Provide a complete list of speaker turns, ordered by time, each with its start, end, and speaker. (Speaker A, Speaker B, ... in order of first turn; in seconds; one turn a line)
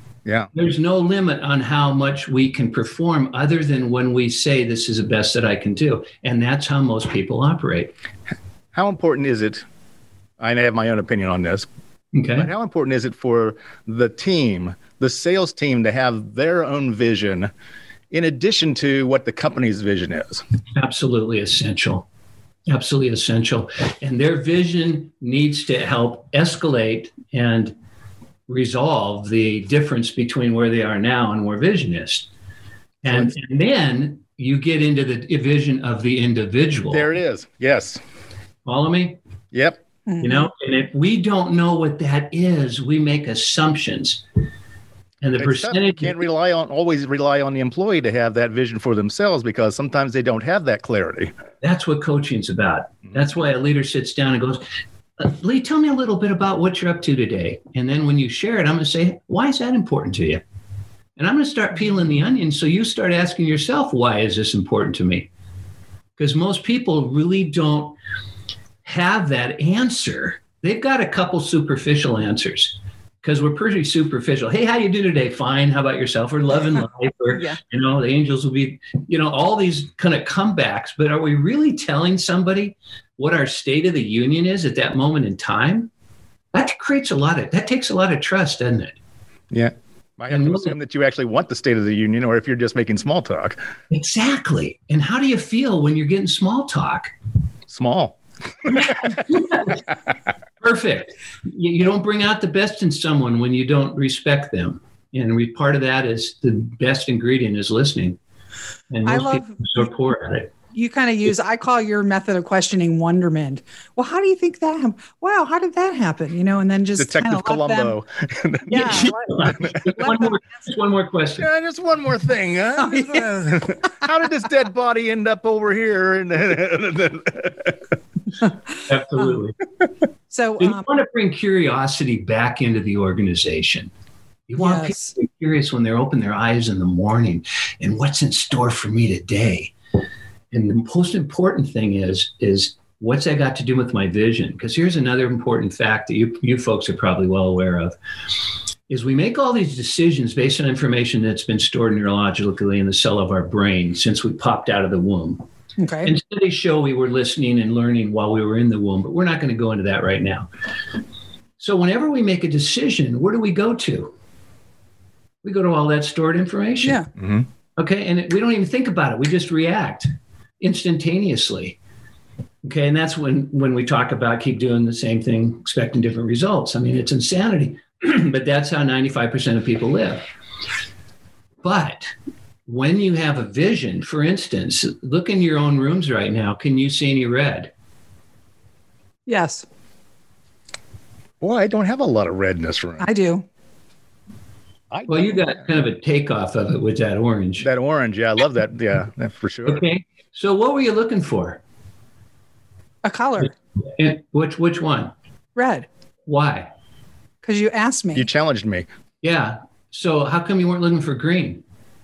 Speaker A: 0.2-0.5
Speaker B: 0.5-7.9
Speaker A: 8.7-9.6
Speaker A: 10.4-11.7
Speaker B: 12.1-12.5
Speaker A: 12.3-17.5
Speaker A: 18.1-20.4
Speaker B: 20.7-22.1
Speaker B: 22.7-27.7
Speaker B: 28.5-32.3
Speaker B: 33.0-37.0
Speaker A: 36.9-38.0
Speaker B: 38.6-39.2
Speaker A: 39.5-39.8
Speaker C: 40.1-40.5
Speaker B: 40.2-44.2
Speaker B: 45.2-46.2
Speaker A: 45.4-51.3
Speaker B: 51.6-54.6
Speaker B: 55.2-60.4
Speaker B: 61.2-65.3
Speaker B: 66.2-68.0
Speaker B: 68.8-85.9
Speaker B: 86.5-89.0
Speaker A: 89.5-93.6
Speaker B: 90.3-90.7
Speaker B: 93.9-97.1
Speaker A: 97.7-99.1
Speaker B: 98.8-99.8
Speaker B: 100.6-108.2
Speaker B: 108.9-110.5
Speaker C: 109.0-109.9
Speaker C: 110.7-117.9
Speaker A: 117.0-119.6
Speaker C: 118.7-120.3
Speaker B: 118.7-121.5
Speaker A: 121.4-127.8
Speaker C: 122.8-123.2
Speaker B: 128.9-129.6
Speaker C: 130.3-130.8
Speaker B: 130.6-133.9
Speaker B: 134.5-139.7
Speaker C: 134.6-135.1
Speaker B: 140.5-147.9
Speaker B: 148.9-155.4
Speaker C: 155.8-156.1
Speaker B: 156.0-160.5
Speaker B: 161.6-164.1
Speaker B: 165.4-167.0
Speaker A: 167.2-167.4
Speaker B: 167.8-170.1
Speaker B: 170.6-171.8
Speaker B: 172.6-180.2
Speaker B: 181.6-182.1
Speaker B: 182.7-187.7
Speaker C: 189.3-189.7
Speaker A: 191.4-193.1
Speaker C: 193.0-193.4
Speaker A: 194.9-195.6
Speaker B: 195.1-197.7
Speaker A: 197.6-199.8
Speaker B: 199.7-201.6
Speaker C: 203.0-203.5
Speaker B: 203.9-205.1
Speaker C: 205.6-205.9
Speaker B: 206.2-206.7
Speaker C: 207.4-208.2
Speaker A: 208.1-208.9
Speaker B: 209.2-211.6